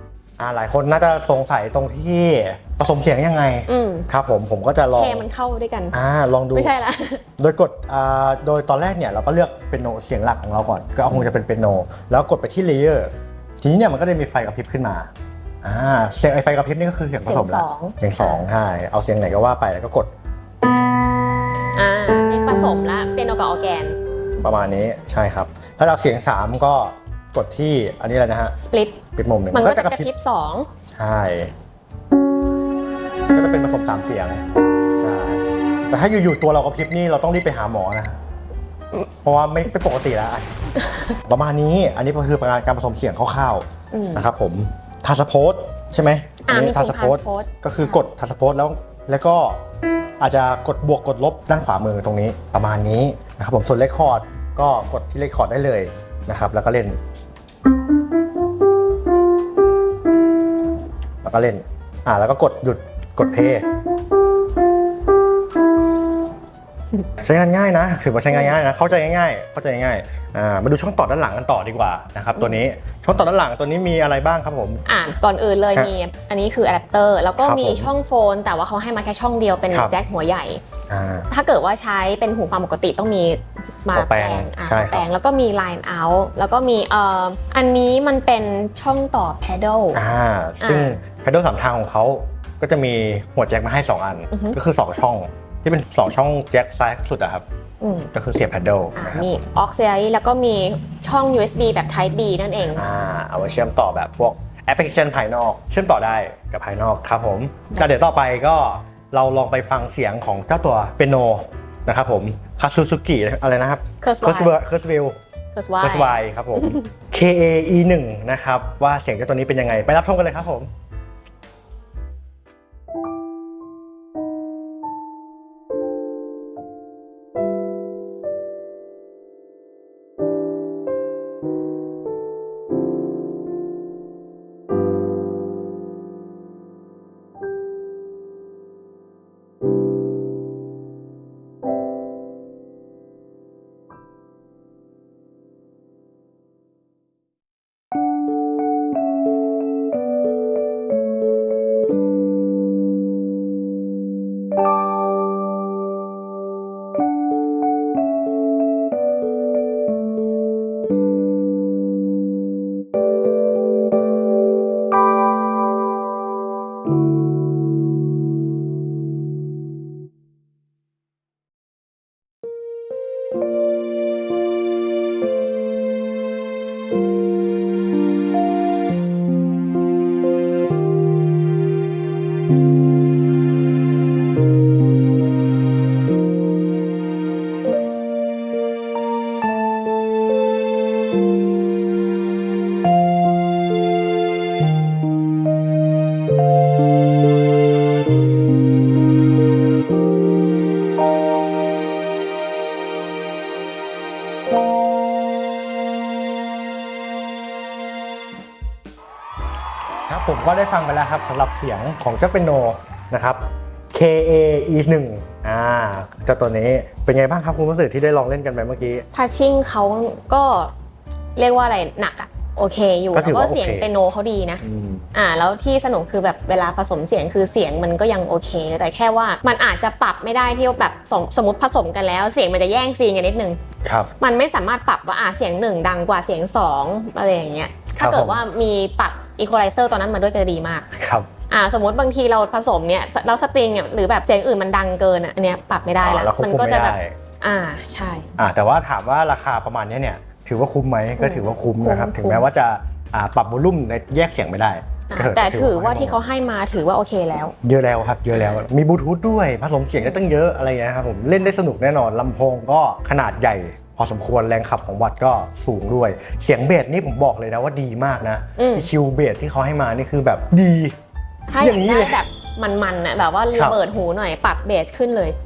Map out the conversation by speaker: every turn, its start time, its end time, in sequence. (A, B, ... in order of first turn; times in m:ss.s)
0:00.4-0:05.2 A
0:03.7-0:04.1 B
0:04.9-0:06.0 B
0:05.9-0:06.7 A
0:06.5-0:07.2 B
0:07.4-0:15.1 A
0:15.6-0:20.1 A
0:17.2-0:18.5 B
0:21.7-0:24.0 B
0:24.4-0:28.6 A
0:28.6-0:30.7 B
0:29.1-0:30.1 A
0:31.0-0:31.5 A
0:33.3-0:34.4 A
0:35.0-0:38.2 A
0:39.2-0:49.6 A
0:43.9-0:44.2 B
0:46.4-0:48.0 B
0:50.2-0:57.0 A
1:01.2-1:03.7 A
1:07.2-1:14.8 A
1:14.8-1:20.6 B
1:17.4-1:17.9 A
1:20.9-1:21.3 A
1:21.3-1:30.0 B
1:23.9-1:25.0 A
1:29.9-1:37.4 A
1:30.6-1:31.0 B
1:37.8-1:38.1 B
1:38.1-1:39.3 A
1:38.9-1:42.8 B
1:42.8-1:55.2 A
1:54.0-1:54.6 B
1:55.5-1:56.8 B
1:55.8-2:00.7 A
3:30.1-3:39.0 A
3:39.1-3:40.7 B
3:41.4-3:44.6 B
3:43.1-3:43.9 A
3:44.6-3:45.1 A
3:45.1-3:53.6 B
3:53.8-3:54.1 A
3:54.2-4:00.9 B
3:57.9-3:58.4 A
4:00.9-4:01.3 A
4:01.5-4:08.3 B
4:06.0-4:07.1 A
4:08.4-4:16.2 A
4:11.2-4:12.5 B
4:15.1-4:17.5 B
4:17.6-4:31.0 A
4:18.3-4:18.6 B
4:20.0-4:20.3 B
4:28.6-4:28.9 B
4:31.5-4:35.4 B
4:31.6-4:32.2 A